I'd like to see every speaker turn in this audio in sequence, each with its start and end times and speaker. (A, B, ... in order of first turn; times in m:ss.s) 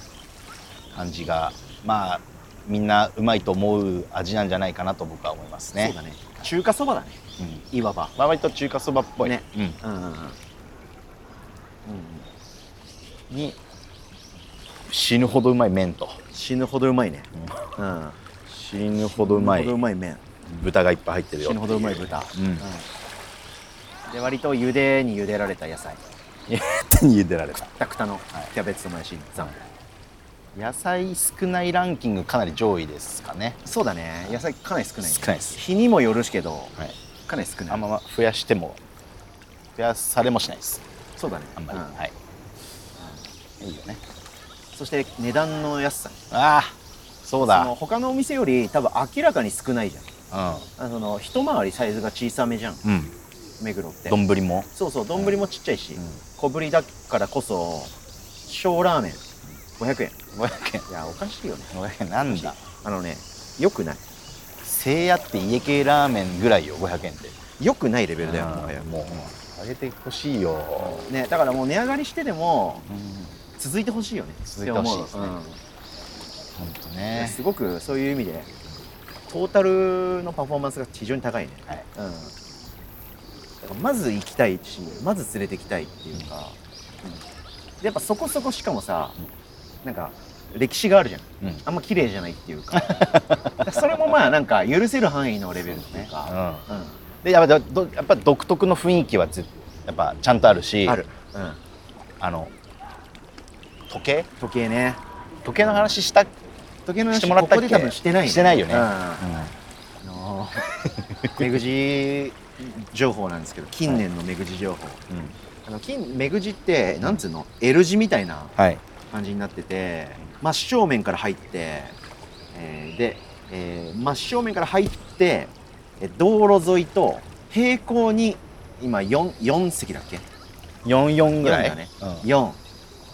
0:00.9-0:06.0 A
0:05.8-0:07.2 B
0:07.4-0:07.6 A
0:07.7-0:08.1 B
0:08.2-0:09.8 A
0:09.2-0:10.4 B
0:11.9-0:12.2 B
0:13.3-0:13.6 A
0:14.9-0:16.2 A
0:16.3-0:18.2 B
0:18.5-0:19.8 A
0:19.0-0:20.2 B
0:20.4-0:22.6 A
0:21.4-0:22.9 B
0:24.1-0:26.0 B
0:26.5-0:27.7 A
0:27.8-0:29.6 B
0:30.5-0:33.6 A
0:33.6-0:36.7 B
0:35.0-0:35.6 A
0:37.3-0:37.8 B
0:37.7-0:38.8 A
0:39.8-0:40.8 A
0:41.2-0:42.0 B
0:41.6-0:42.1 A
0:43.6-0:44.0 A
0:44.7-0:46.2 B
0:46.3-0:47.7 A
0:47.4-0:50.1 B
0:50.3-0:50.7 A
0:50.8-0:52.8 B
0:52.8-0:53.1 A
0:53.6-0:54.2 B
0:54.1-0:55.4 A
0:54.7-0:57.9 B
0:58.4-0:59.2 B
0:59.8-1:00.2 B
1:00.3-1:00.9 A
1:00.9-1:01.7 B
1:01.7-1:02.6 A
1:02.3-1:04.0 B
1:04.6-1:07.4 A
1:07.6-1:09.3 B
1:08.2-1:11.1 A
1:10.8-1:12.9 B
1:12.9-1:13.4 A
1:13.6-1:15.6 B
1:14.4-1:15.4 A
1:16.6-1:17.4 A
1:17.2-1:18.5 B
1:19.3-1:22.3 B
1:23.6-1:26.6 B
1:27.8-1:29.2 B
1:29.8-1:37.0 B
1:32.8-1:33.9 A
1:35.6-1:36.6 A
1:37.2-1:41.0 A
1:40.8-1:41.6 B
1:42.2-1:42.5 A
1:43.9-1:44.3 A
1:44.4-1:45.0 B
1:45.4-1:46.3 A
1:46.9-1:49.3 B
1:47.1-1:49.5 A
1:50.0-1:50.7 B
1:50.7-1:51.5 A
1:51.3-1:55.0 B
1:55.6-1:58.5 B
1:58.6-1:58.8 A
1:59.1-2:01.9 B
2:02.5-2:10.2 B
2:10.8-2:12.2 A
2:11.4-2:12.6 B